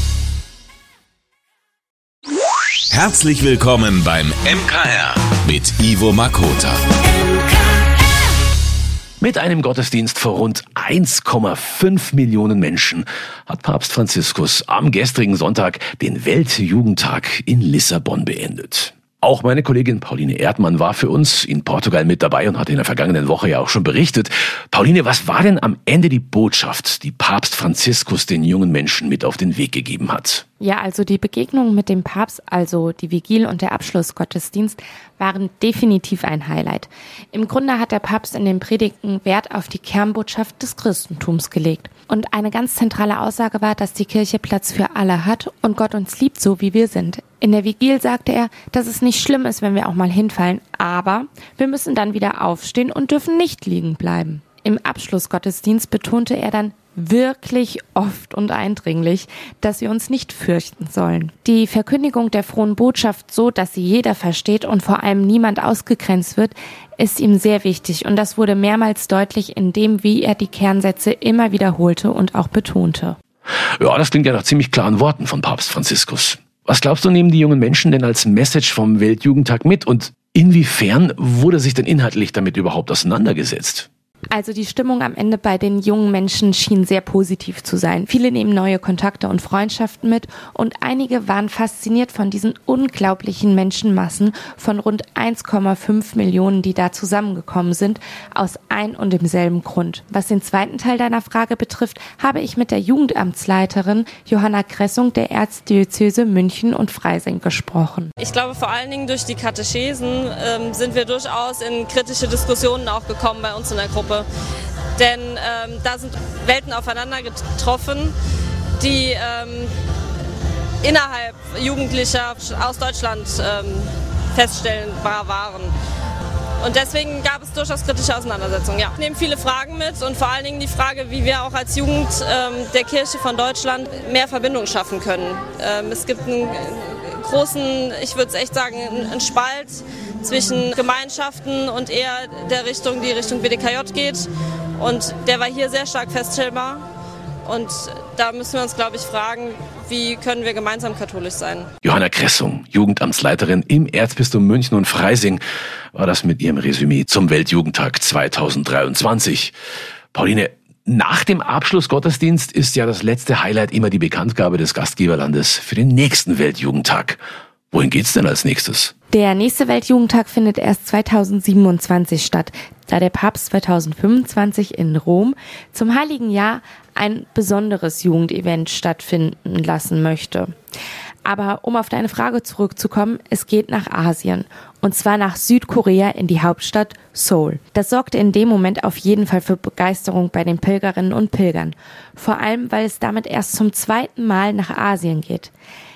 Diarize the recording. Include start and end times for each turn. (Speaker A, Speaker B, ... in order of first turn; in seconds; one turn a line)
Speaker A: 2.9-6.8
Speaker B: 9.2-30.4
Speaker C: 30.6-73.2
Speaker B: 73.8-83.9
Speaker C: 84.3-108.1
Speaker D: 108.2-114.3
Speaker D: 115.0-118.1
Speaker D: 118.8-119.7
Speaker D: 120.8-125.7
Speaker D: 126.6-146.8
Speaker D: 147.4-151.7
Speaker B: 151.8-155.4
Speaker B: 155.9-159.5
Speaker B: 160.1-167.2
Speaker B: 167.7-168.9
Speaker C: 169.1-180.5
Speaker C: 181.3-195.5